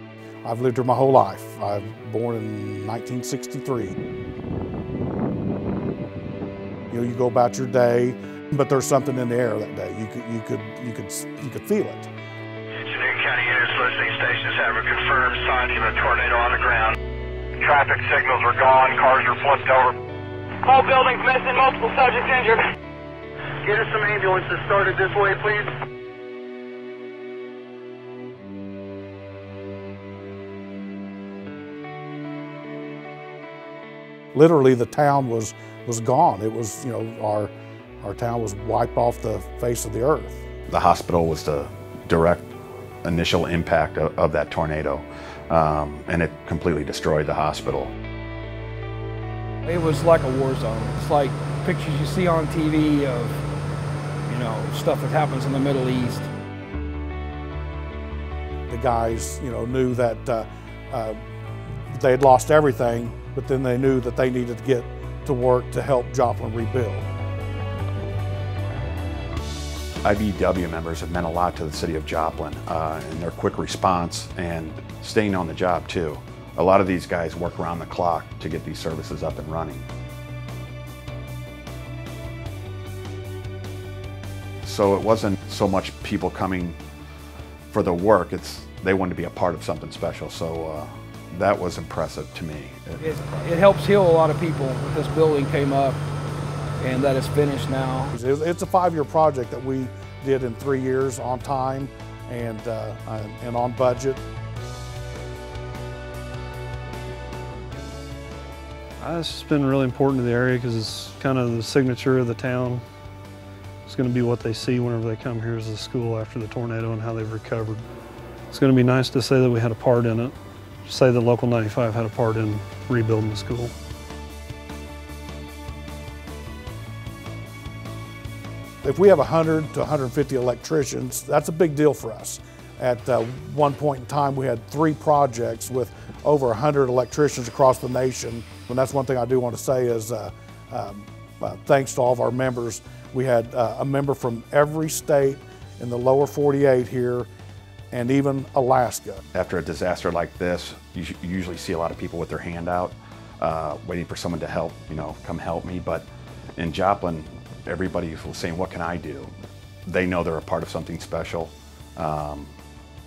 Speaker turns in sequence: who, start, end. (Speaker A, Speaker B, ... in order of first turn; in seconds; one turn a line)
Speaker A: 0.4-4.0
Speaker A: 6.9-12.1
Speaker B: 12.8-17.0
Speaker B: 17.6-20.0
Speaker C: 20.6-22.7
Speaker B: 23.6-25.7
Speaker A: 34.3-40.4
Speaker D: 40.7-42.5
Speaker D: 43.0-47.9
Speaker E: 49.7-53.4
Speaker E: 54.3-56.3
Speaker A: 58.7-61.2
Speaker A: 61.9-67.1
Speaker D: 70.0-79.9
Speaker D: 84.6-86.8
Speaker D: 87.7-93.7
Speaker E: 93.0-96.0
Speaker E: 96.8-98.1
Speaker A: 98.1-104.2
Speaker F: 109.0-112.8
Speaker F: 113.9-117.8
Speaker F: 118.5-120.3
Speaker F: 120.9-123.7
Speaker A: 128.8-147.3
Speaker A: 147.9-149.2
Speaker D: 149.3-156.1
Speaker D: 156.6-159.3
Speaker D: 159.9-162.5